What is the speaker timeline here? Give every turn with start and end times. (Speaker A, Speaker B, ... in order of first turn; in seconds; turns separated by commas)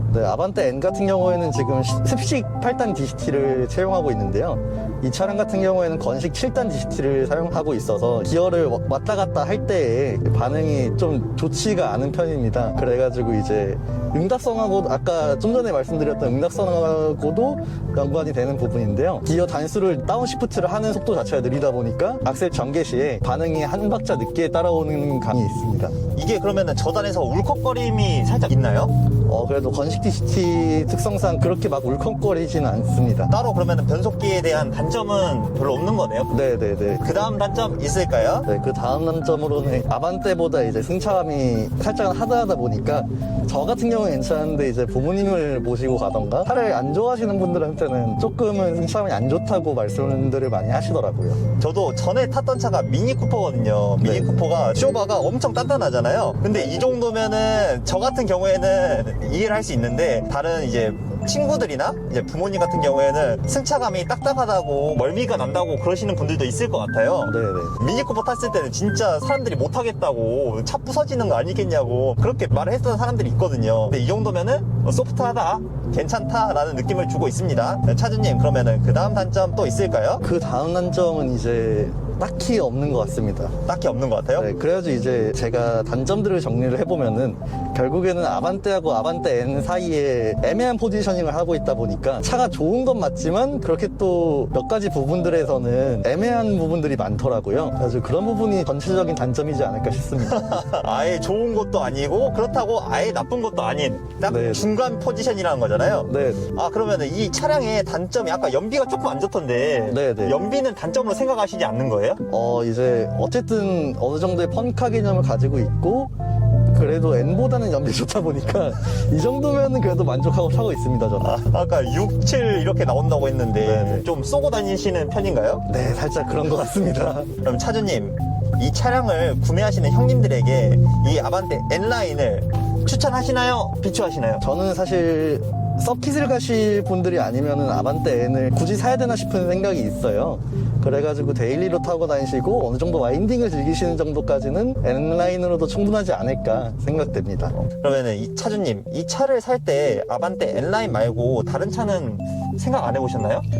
Speaker A: 0.1-26.0, Speaker B: 26.1-28.9, Speaker A: 29.3-33.3, Speaker B: 33.3-36.3, Speaker A: 36.3-37.1, Speaker B: 37.0-38.5, Speaker A: 38.5-51.5, Speaker B: 51.5-80.2, Speaker A: 54.0-54.4, Speaker A: 67.2-67.8, Speaker A: 80.2-83.6, Speaker B: 83.7-84.5, Speaker A: 84.4-100.6, Speaker B: 100.2-112.2, Speaker A: 104.3-104.7, Speaker A: 106.0-106.5, Speaker A: 109.9-110.4, Speaker A: 112.3-116.1, Speaker A: 116.7-121.3, Speaker B: 121.2-125.6, Speaker A: 123.6-124.0, Speaker A: 125.7-127.3, Speaker B: 127.4-134.4, Speaker A: 134.4-147.5, Speaker B: 147.6-153.4